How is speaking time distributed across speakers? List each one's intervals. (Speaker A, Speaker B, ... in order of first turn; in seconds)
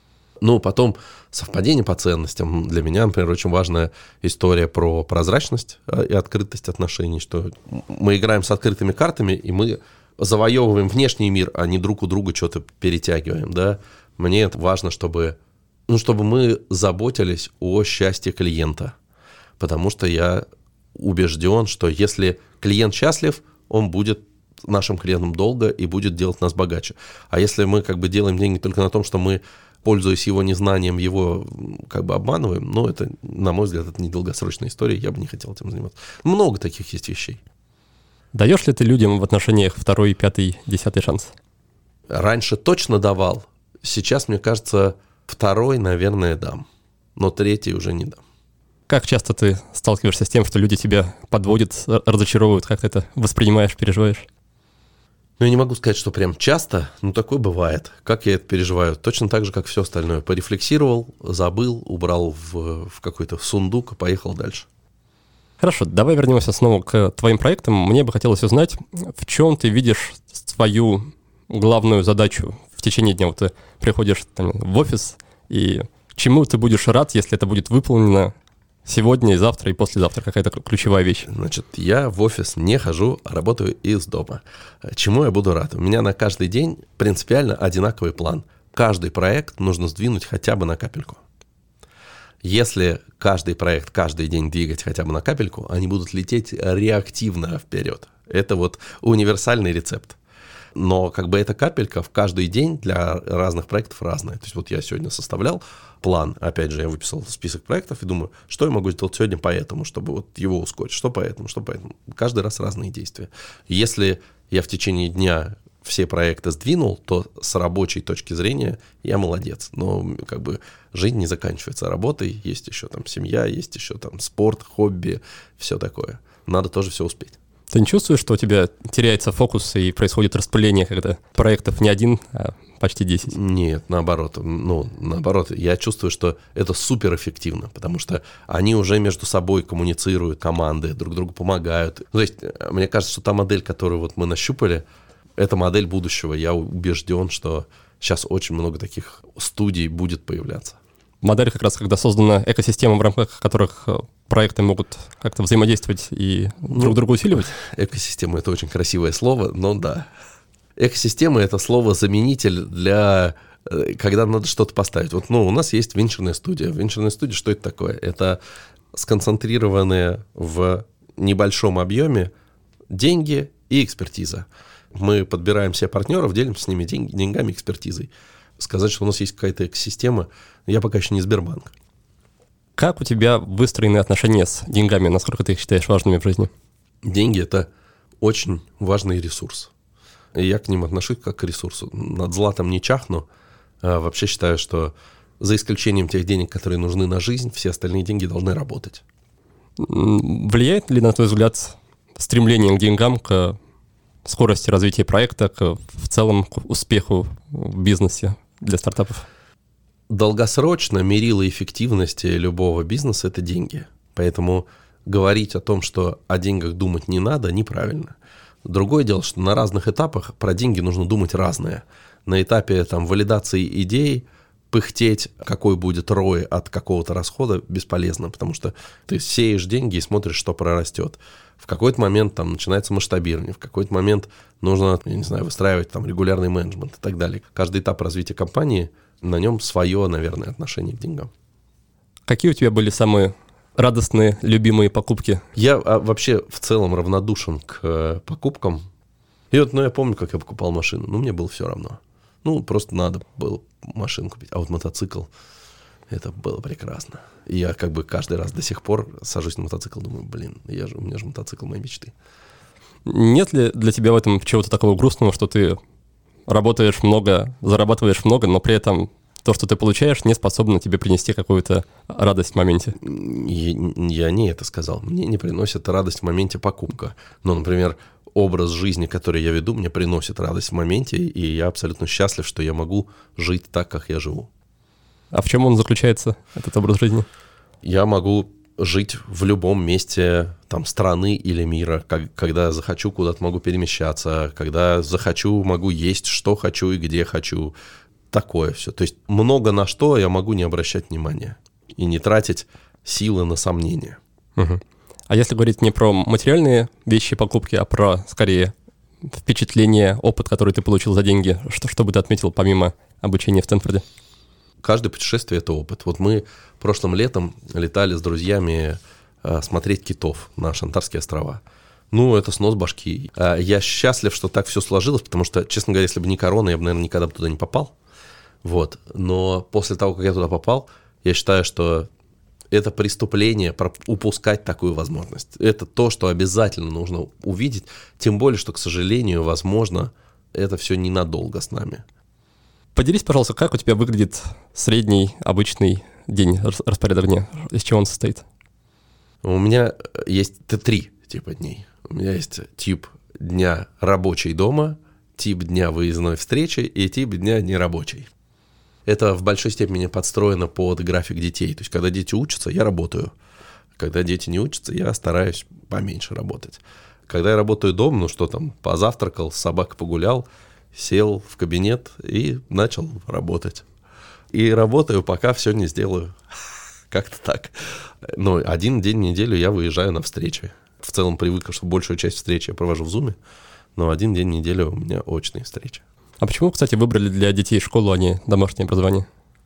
Speaker A: 0.4-15.4, 15.9-18.9, 19.6-37.4, 42.1-48.2, 55.4-64.7, 81.3-91.2, 92.4-100.2, 100.7-127.3, 133.3-144.8, 145.4-150.8, 156.7-160.1, 160.8-168.4, 168.9-172.3, 172.9-181.7, 187.0-187.7, 188.2-189.7, 190.3-193.2, 193.8-199.0, 210.1-241.3, 245.5-248.9, 249.5-255.3, 256.1-262.1, 273.0-284.5, 287.8-297.7, 298.3-304.2, 314.8-327.9, 328.6-332.1, 332.7-342.0, 349.4-358.3, 359.1-363.3, 364.0-373.9, 374.5-376.4, 377.1-383.4, 383.9-386.0
Speaker B: 38.3-41.3, 48.9-54.3, 65.6-78.3, 78.8-81.3, 127.7-133.3, 151.2-157.5, 182.8-186.5, 199.8-203.6, 204.2-209.2, 242.3-245.4, 263.1-265.8, 266.5-273.0, 285.3-287.3, 304.6-308.7, 309.2-314.0, 342.9-348.4, 386.4-389.3